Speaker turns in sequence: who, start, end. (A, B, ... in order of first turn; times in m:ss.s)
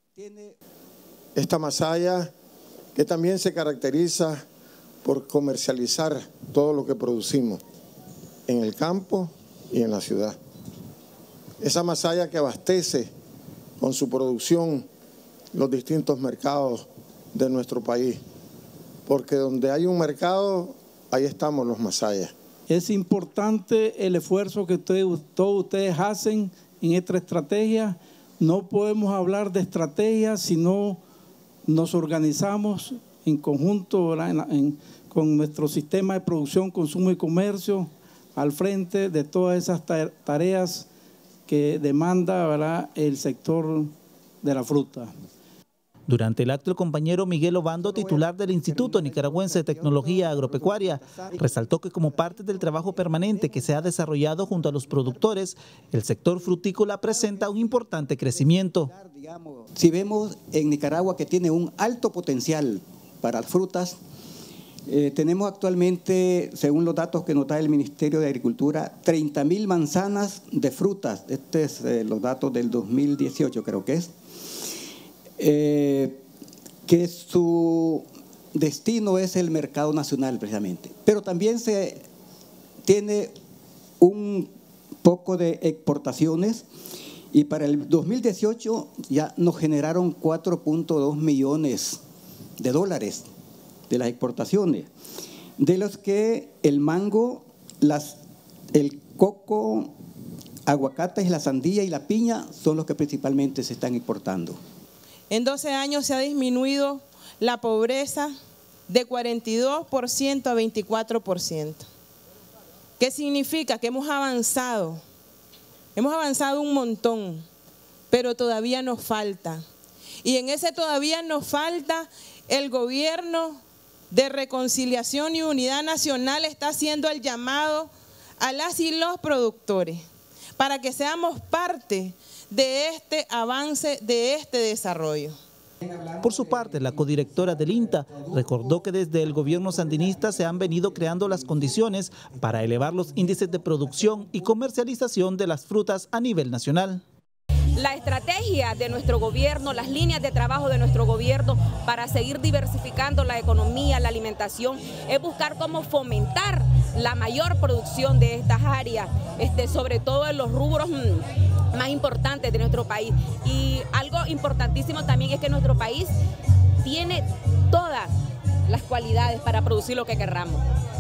0:00.1-0:00.6 A
0:01.3-0:02.3 B
0:02.9-0:04.4 B
0:05.0-0:07.6 B
0:08.5-0:10.4 B
0:11.6-0:13.1 B
0:13.8-0:14.8 B
0:15.5-0:18.2 B
0:19.0-0:22.3 B
0:22.7-0:31.0 C
0:31.7-0:40.9 C
0:41.5-0:45.1 C
0:46.1-0:58.9 D
0:47.8-0:53.8 A
0:54.5-0:55.4 A
0:57.0-1:04.0 A
1:04.9-1:14.1 A
1:15.4-1:16.2 A
1:16.8-1:22.0 A
1:22.8-1:23.4 A
1:24.0-1:24.5 A
1:25.0-1:26.6 A
1:27.3-1:32.0 A
1:32.6-1:33.3 A
1:33.9-1:34.9 A
1:35.6-1:38.2 A
1:38.7-1:39.9 A
1:40.7-1:44.6 A
1:45.3-1:48.3 E
1:48.9-1:51.8 E
1:53.0-1:55.0 E
1:55.9-1:57.4 E
1:58.1-1:59.6 E
2:00.2-2:10.0 E
2:10.6-2:15.4 E
2:15.9-2:16.2 A
2:16.2-2:27.0 D
2:27.7-2:46.1 F
2:46.8-2:48.1 F
2:48.7-2:50.6 F